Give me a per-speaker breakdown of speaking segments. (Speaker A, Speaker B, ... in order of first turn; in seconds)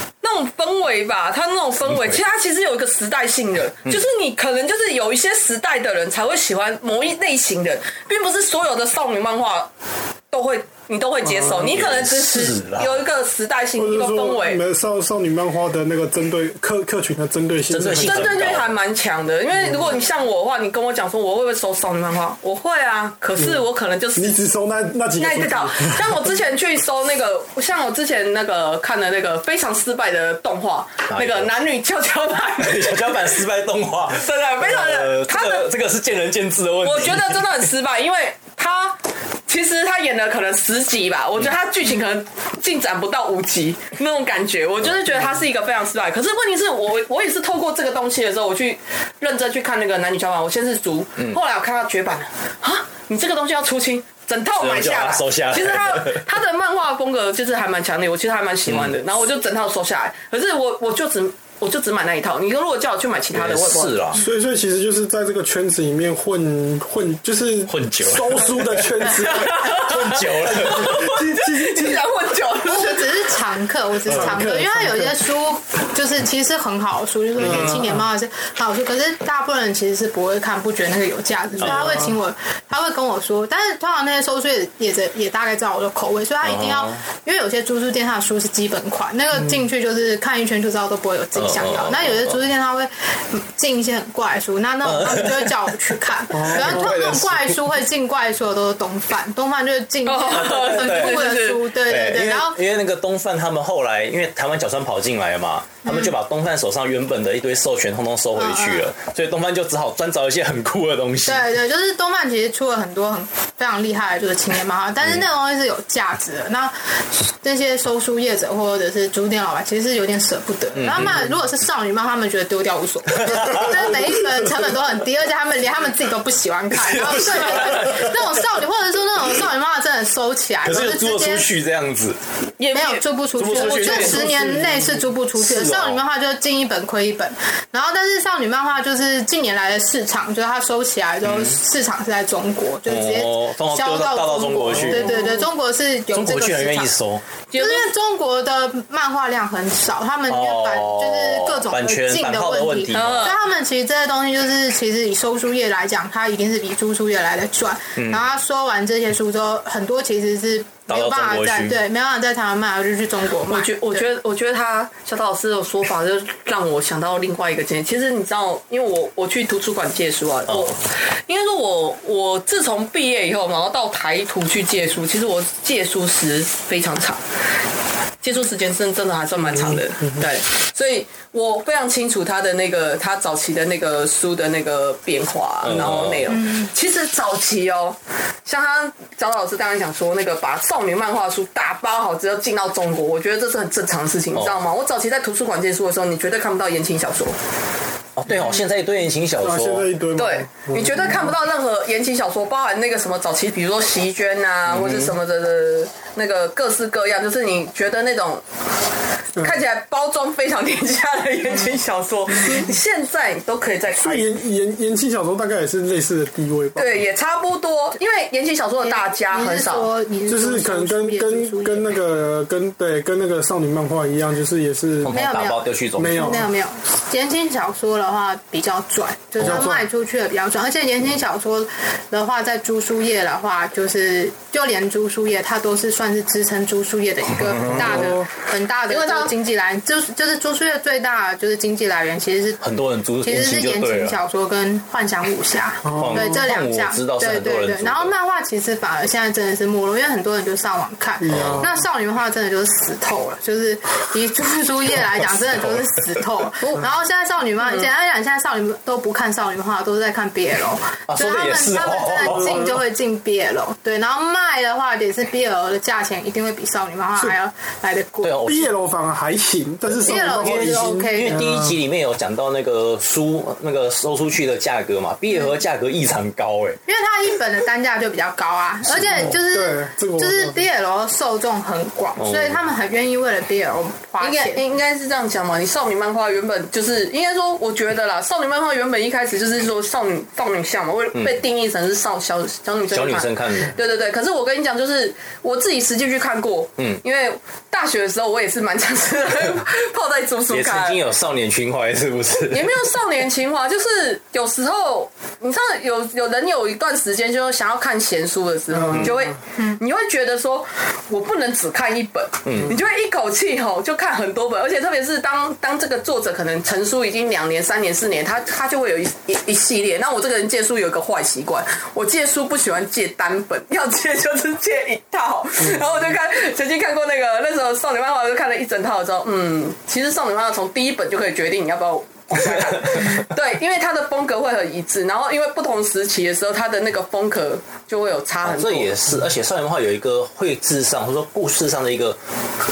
Speaker A: 0.2-9.7, 10.3-14.6, 18.0-24.4, 25.2-33.3, 34.1-35.7, 36.8-64.0, 69.3-73.2, 100.0-101.6, 132.6-134.2, 145.1-145.4, 147.5-147.9, 152.9-153.4, 163.5-177.2, 178.2-197.4, 200.2-208.4, 209.3-214.3, 216.8-219.9, 238.9-239.3, 257.6-257.9, 284.2-301.0, 302.5-338.9
Speaker B: 11.2-11.7, 13.8-18.3, 23.4-23.6, 24.1-26.1, 64.1-69.5, 70.5-72.0, 74.0-75.1, 77.4-77.9, 81.6-82.1, 96.3-96.9, 134.3-134.8, 199.4-201.3, 214.0-217.0, 220.3-225.1, 226.0-226.5, 229.4-229.8, 237.7-238.3, 245.9-246.4, 251.2-251.7, 262.2-262.7, 268.4-271.7, 279.3-280.6
Speaker C: 11.7-13.0, 17.7-18.7, 31.1-31.5, 32.6-37.4, 54.5-56.2, 58.6-58.9, 63.3-64.2, 67.7-71.0, 86.4-87.0, 91.3-92.4, 94.8-95.6, 96.3-97.6, 100.3-101.3, 101.8-111.5, 120.8-121.2, 123.2-123.9, 126.8-128.2, 130.6-132.2, 133.4-134.6, 135.3-136.0, 141.2-141.6, 142.9-145.2, 146.1-147.2, 150.3-153.3, 157.9-158.2, 160.9-161.8, 170.5-170.7, 185.6-186.2, 198.2-199.9, 204.7-205.1, 225.0-226.4, 229.4-229.7, 237.5-238.1, 242.6-244.2, 246.0-248.1, 251.3-251.7, 261.1-262.7, 268.2-268.6, 270.1-276.8, 278.9-279.3, 282.2-282.6, 292.9-293.7, 300.5-302.6, 312.4-312.7, 338.4-342.2
Speaker D: 72.6-102.6, 105.8-106.1, 108.3-108.9, 111.2-131.5, 132.7-146.9, 147.5-164.1, 186.3-186.7, 218.8-221.9, 225.1-242.6, 243.2-268.5, 269.9-271.6, 276.9-284.6, 309.6-309.8